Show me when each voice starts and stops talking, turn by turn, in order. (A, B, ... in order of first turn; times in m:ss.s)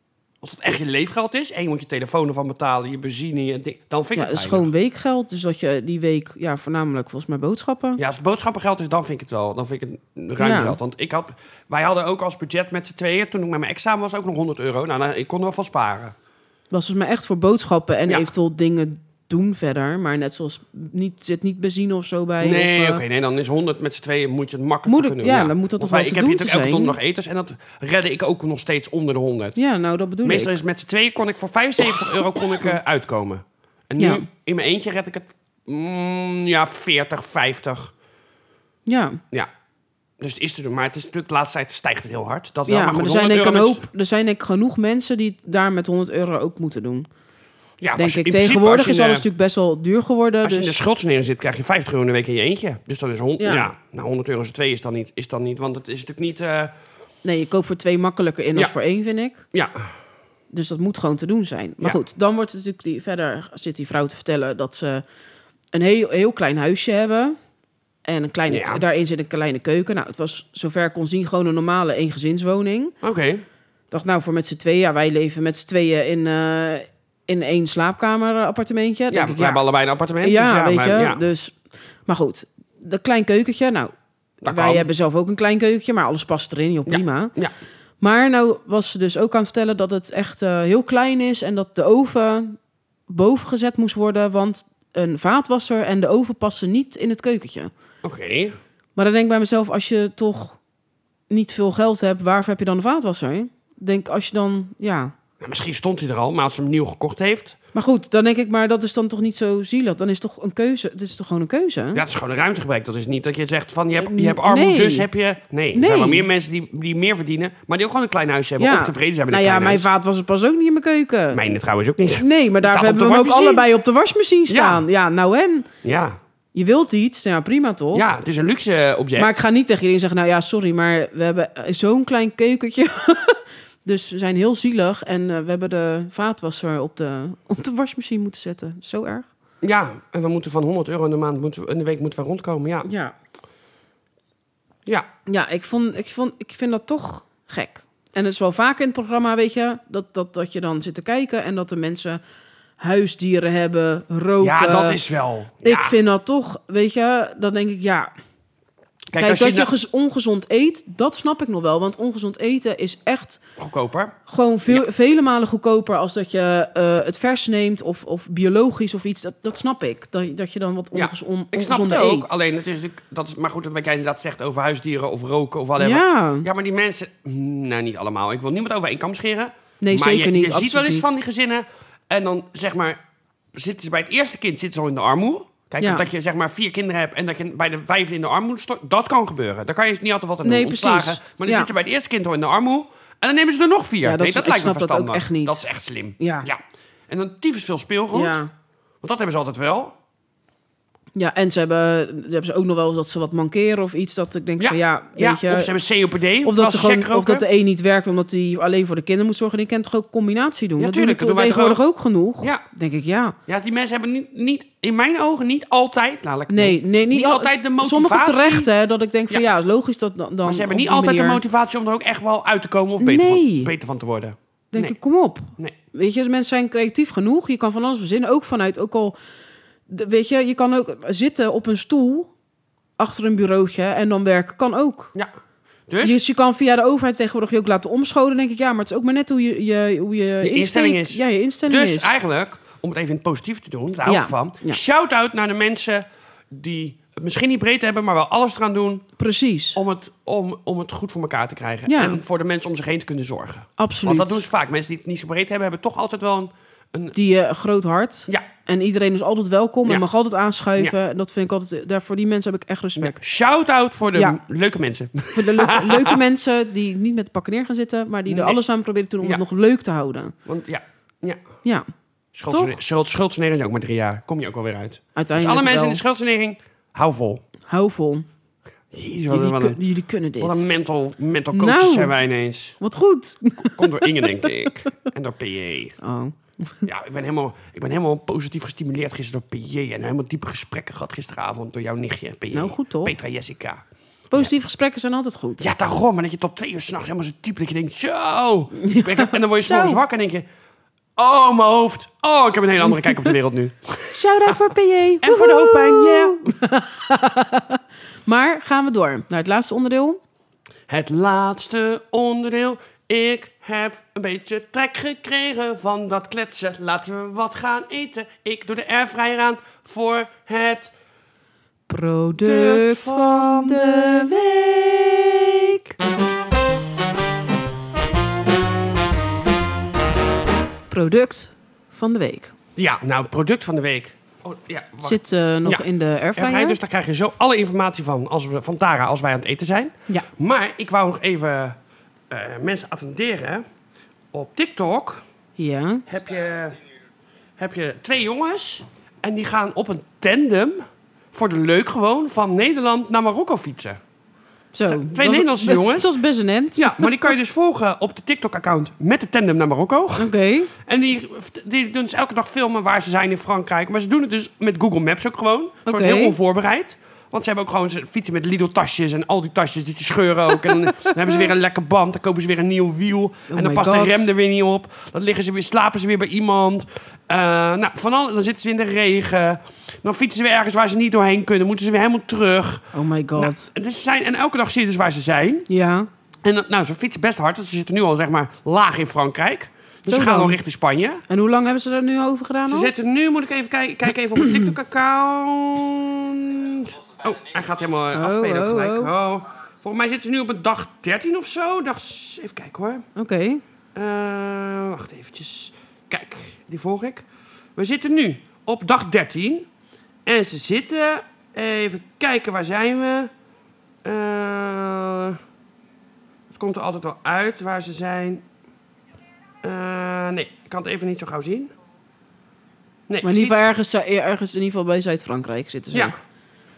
0:00.4-0:04.7 A
0:04.1-0:08.0 B
0:08.0-0:16.1 A
0:10.4-0:10.8 B
0:16.7-0:23.0 B
0:22.4-0:29.6 A
0:24.8-0:27.0 B
0:29.6-0:30.5 B
0:30.2-0:37.9 A
0:34.0-0:34.3 B
0:38.8-0:39.2 B
0:40.2-0:43.8 A
0:42.7-0:47.1 B
0:47.8-0:49.2 A
0:48.0-0:50.8 B
0:50.4-0:56.7 A
0:53.4-0:53.7 B
0:57.2-0:59.4 B
0:59.5-0:59.9 A
1:00.5-1:05.0 B
1:05.7-1:07.4 B
1:08.0-1:12.9 B
1:08.5-1:08.8 A
1:13.0-1:13.4 A
1:13.9-1:19.6 B
1:19.1-1:21.2 A
1:20.2-1:27.3 B
1:24.4-1:24.9 A
1:26.9-1:27.5 A
1:28.0-1:37.7 B
1:38.0-1:38.6 A
1:39.0-1:40.6 B
1:41.3-1:45.1 B
1:45.4-1:47.6 A
1:47.7-1:52.0 B
1:51.9-1:59.9 A
1:54.0-1:55.1 B
1:55.7-1:56.3 B
1:58.6-2:01.4 B
2:01.3-2:03.6 A
2:02.2-2:05.7 B
2:04.5-2:04.8 A
2:05.8-2:06.2 A
2:06.5-2:08.0 B
2:07.9-2:09.4 A
2:09.2-2:19.3 B
2:19.6-2:22.9 A
2:22.8-2:23.1 B
2:25.2-2:32.2 B
2:32.8-2:35.0 B
2:34.4-2:36.0 A
2:35.6-2:38.1 B
2:39.1-2:39.7 A
2:39.2-2:43.4 B
2:43.6-2:44.2 A
2:44.2-2:52.3 B
2:50.9-3:03.0 A
2:55.8-2:56.5 B
2:59.8-3:01.1 B
3:03.5-3:18.4 A
3:05.8-3:06.0 B
3:10.4-3:11.7 B
3:14.0-3:15.6 B
3:16.2-3:16.5 B
3:18.1-3:18.5 B
3:19.0-3:20.0 A
3:21.1-3:25.7 B
3:24.6-3:27.4 A
3:26.4-3:33.4 B
3:30.8-3:31.8 A
3:33.5-3:38.7 A
3:36.5-3:41.4 B
3:40.4-3:45.0 A
3:43.0-3:43.7 B
3:44.7-3:49.2 B
3:49.9-3:52.3 B
3:53.0-3:55.1 B
3:55.9-3:56.2 A
3:56.0-4:02.1 B
4:00.4-4:09.1 A
4:04.0-4:04.8 B
4:09.2-4:09.8 B
4:09.7-4:17.2 A
4:11.9-4:12.2 B
4:13.8-4:14.4 B
4:17.1-4:23.2 B
4:23.0-4:26.2 A
4:25.3-4:30.3 B
4:28.3-4:28.6 A
4:30.4-4:31.4 A
4:32.3-4:37.4 A
4:32.5-4:32.8 B
4:35.1-4:36.0 B
4:37.7-4:38.3 B
4:38.9-4:39.8 A
4:39.3-4:40.6 B
4:40.4-4:42.8 A
4:41.5-4:42.1 B
4:42.8-4:44.4 B
4:43.6-4:46.0 A
4:46.0-4:46.9 B
4:46.8-4:54.5 A
4:52.5-4:53.2 B
4:54.3-4:55.6 B
4:55.6-5:00.4 A
4:58.8-5:00.0 B
5:01.2-5:04.6 A
5:03.0-5:03.3 B
5:04.1-5:10.2 B
5:05.2-5:06.5 A
5:10.9-5:20.9 A
5:21.9-5:24.7 B
5:22.4-5:25.8 A
5:30.9-5:32.5 B
5:32.8-5:41.8 A
5:35.0-5:36.8 B
5:42.3-5:43.6 A
5:44.3-5:45.2 A
5:45.6-5:46.0 B
5:46.1-5:46.8 A
5:47.6-5:54.0 A
5:54.7-5:57.3 B
5:54.8-5:56.1 A
5:56.8-6:25.7 A
6:00.2-6:00.7 B
6:05.8-6:06.4 B
6:13.5-6:14.3 B
6:22.9-6:23.7 B
6:25.7-6:26.1 B
6:26.4-6:31.2 A
6:30.1-6:30.6 B
6:31.3-6:32.9 B
6:32.7-6:43.0 A
6:34.4-6:34.7 B
6:38.1-6:39.1 B
6:43.2-6:43.6 B
6:43.9-6:49.7 A
6:50.2-6:53.3 A
6:54.0-6:55.4 A
6:56.5-6:58.4 A
6:59.6-7:01.7 A
7:03.1-7:03.6 A
7:03.2-7:06.1 B